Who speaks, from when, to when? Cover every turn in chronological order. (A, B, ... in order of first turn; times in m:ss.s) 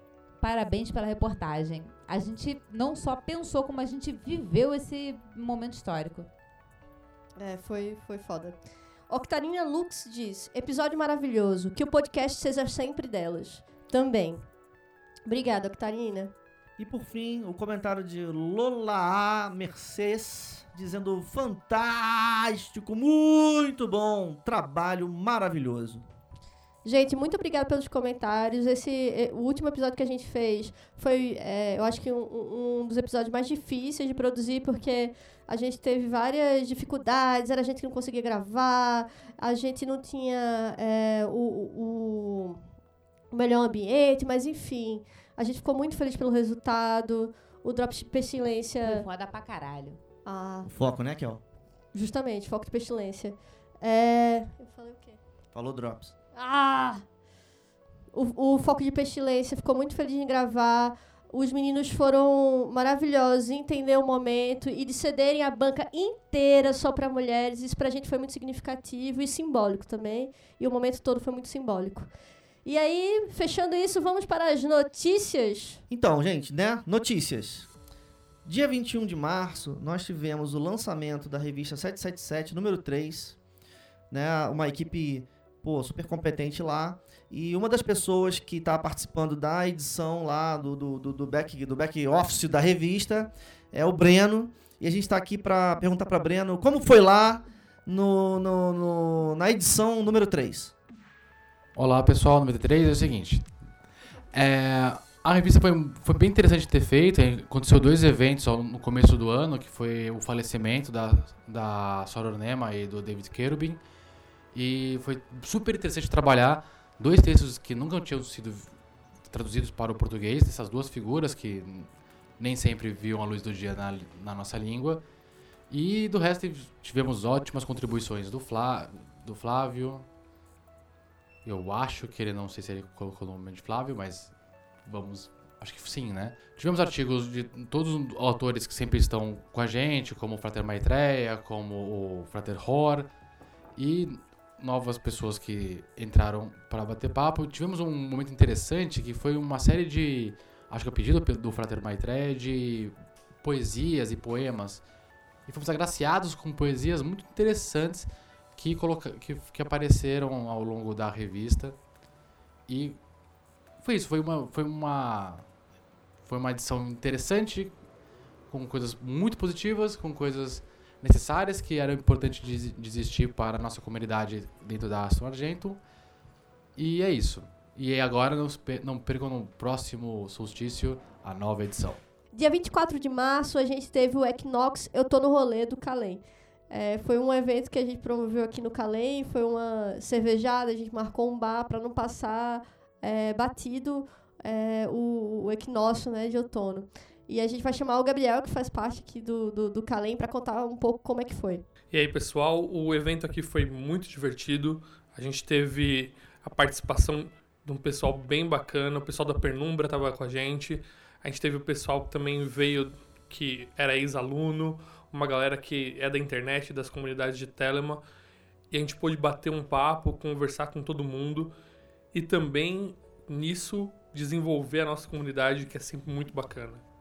0:00.4-0:06.3 A
0:07.4-0:08.6 B
0:09.1-0:14.4 B
0:15.3-0:16.3 B
0:16.8-0:26.0 C
0:26.8-0:42.6 B
0:43.3-0:49.0 B
0:48.8-0:50.0 A
0:50.2-0:50.7 B
0:50.6-0:51.4 C
0:51.9-0:55.2 B
0:55.5-0:56.1 C
0:56.3-0:57.0 B
0:58.1-1:12.1 B
1:12.6-1:15.8 B
1:15.9-1:17.7 C
1:18.4-1:23.4 C
1:24.1-1:40.7 C
1:41.7-1:43.8 D
1:44.3-1:53.8 D
1:54.5-2:05.0 D
2:05.7-2:10.1 D
2:11.4-2:23.1 D
2:23.7-2:34.8 D
2:35.4-2:41.9 D
2:42.7-2:43.0 D
2:43.8-2:45.6 D
2:46.2-2:47.8 D
2:48.5-2:55.8 D
2:56.8-3:02.0 D
3:02.3-3:21.6 B
3:21.9-3:38.0 E
3:38.7-3:41.5 E
3:42.1-3:46.8 E